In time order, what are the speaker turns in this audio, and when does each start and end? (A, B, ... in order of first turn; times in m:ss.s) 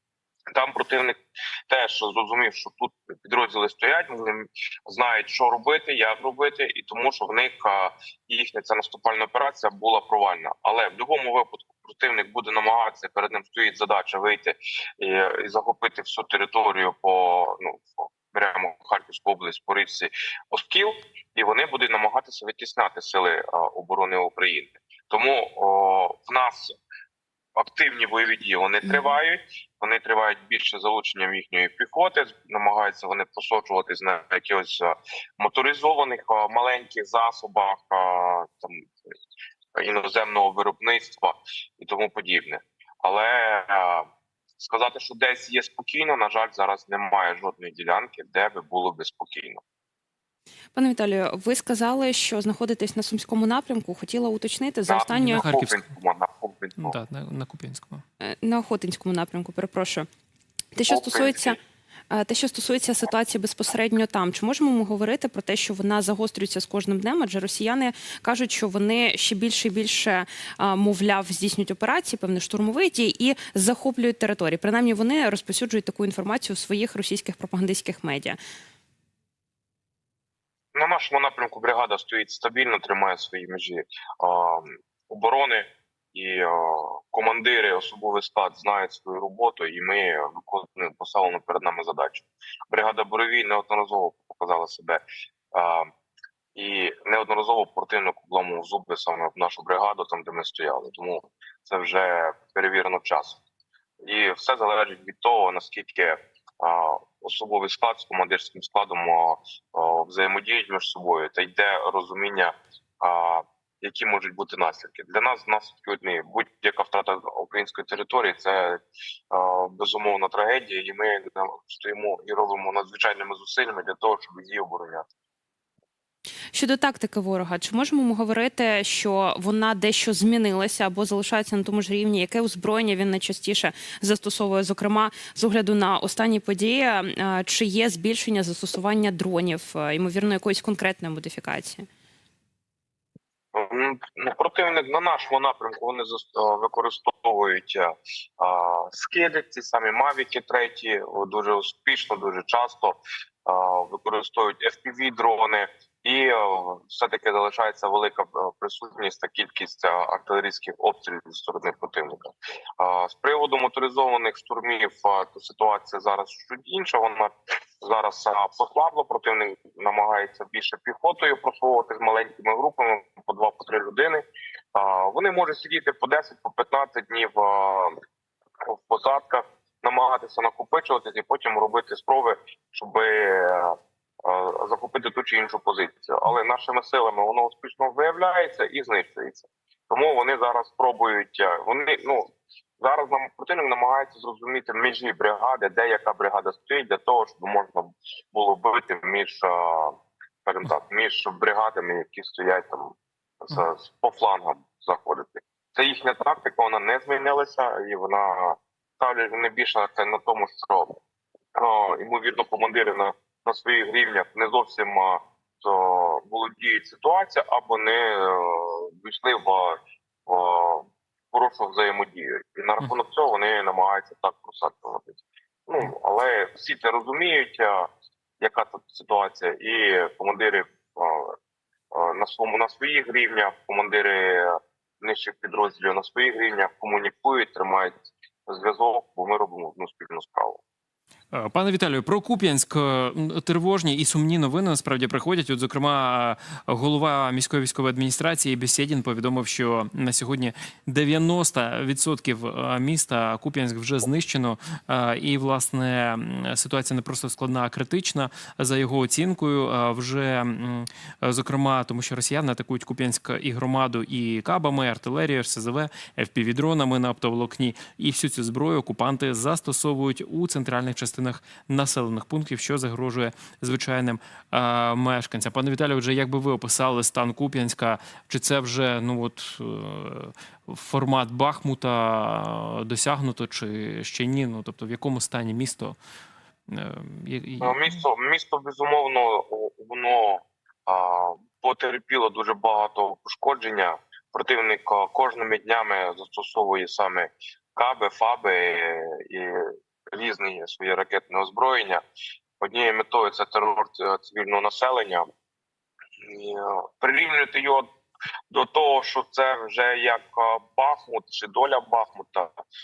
0:00.5-0:26.8 A
0:27.6-0:38.8 A
0:39.8-0:44.1 A
0:44.6-0:49.6 A
0:50.7-0:55.4 B
0:54.9-0:57.0 A
0:55.1-0:55.8 C
0:56.8-0:58.0 C
0:58.2-1:00.1 B
1:00.7-1:01.6 B
1:00.9-1:01.6 A
1:02.1-1:18.4 B
1:20.7-1:35.0 A
1:35.5-1:35.9 A
1:36.5-1:43.4 A
1:44.0-1:58.8 A
1:59.3-2:05.0 A
2:06.5-2:21.8 B
2:23.5-2:54.2 A
2:54.7-2:57.9 A
2:58.6-3:31.0 A
3:31.6-3:47.9 A
3:48.4-3:51.4 A
3:51.9-3:57.9 A
3:58.5-4:00.6 A
4:01.3-4:46.0 C
4:46.7-4:47.9 C
4:47.6-5:02.0 A
5:02.6-5:05.3 A
5:06.2-5:07.9 A
5:08.5-5:12.5 A